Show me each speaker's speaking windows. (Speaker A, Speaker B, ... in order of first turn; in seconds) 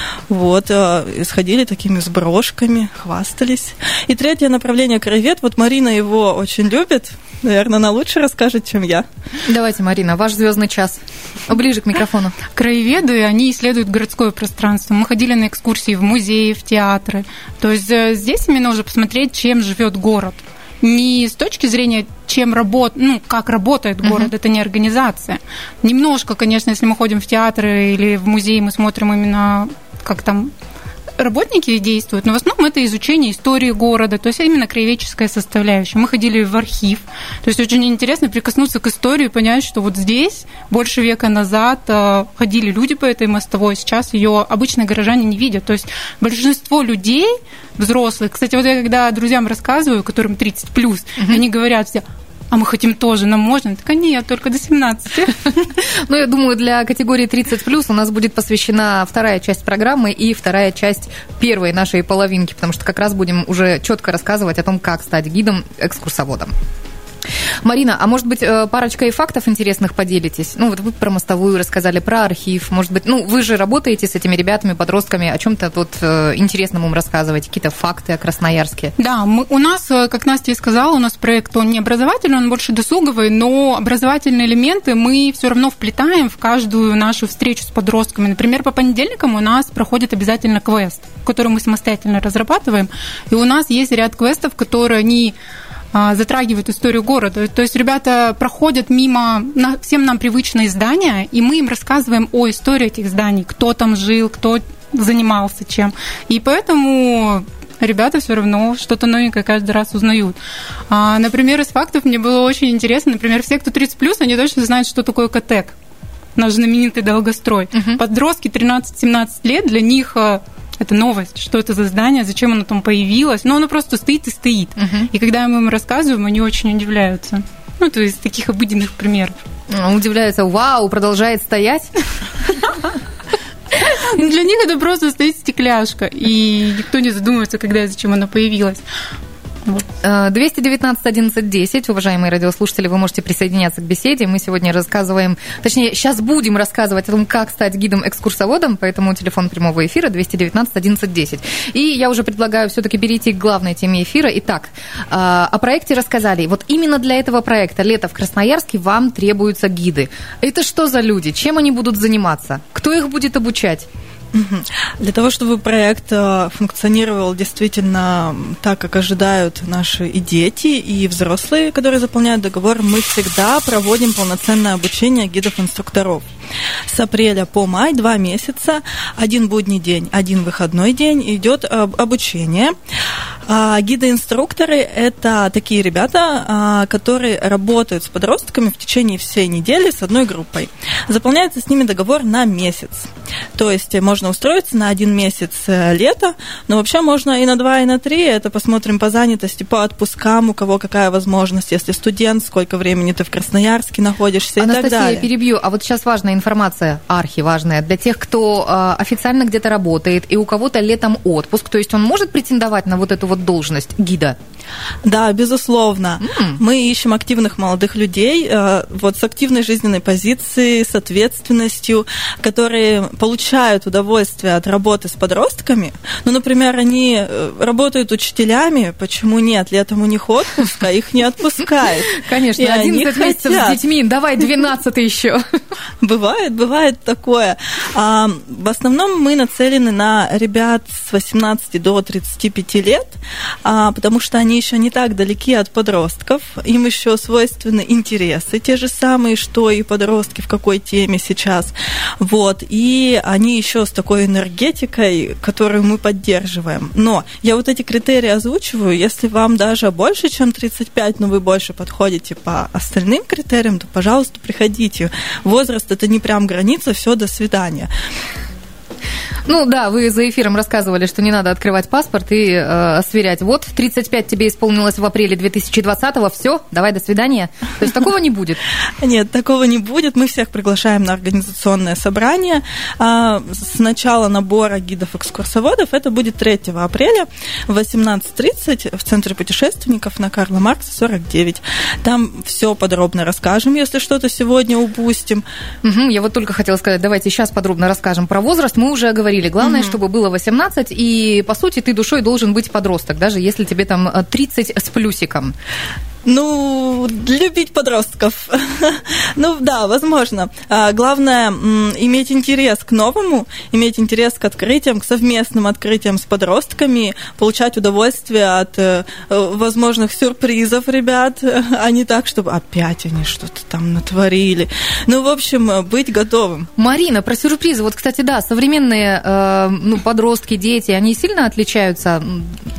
Speaker A: 0.3-9.1, 164.3-176.3, 176.9-182.7, 183.5-205.3, 215.0-233.8, 236.0-267.9, 279.0-295.4, 299.6-299.9, 306.2-326.7
Speaker B: 9.4-12.3, 24.0-24.3, 55.6-66.5, 67.6-78.9, 117.7-118.0, 124.8-125.1, 129.7-131.9, 140.0-163.9, 204.6-214.4, 216.2-216.6, 232.1-235.4, 269.4-278.6, 295.8-305.5, 326.8-332.6
Speaker C: 12.5-30.5, 31.2-55.4, 79.0-95.3, 95.9-110.4, 110.9-115.8, 116.3-129.3, 133.8-138.8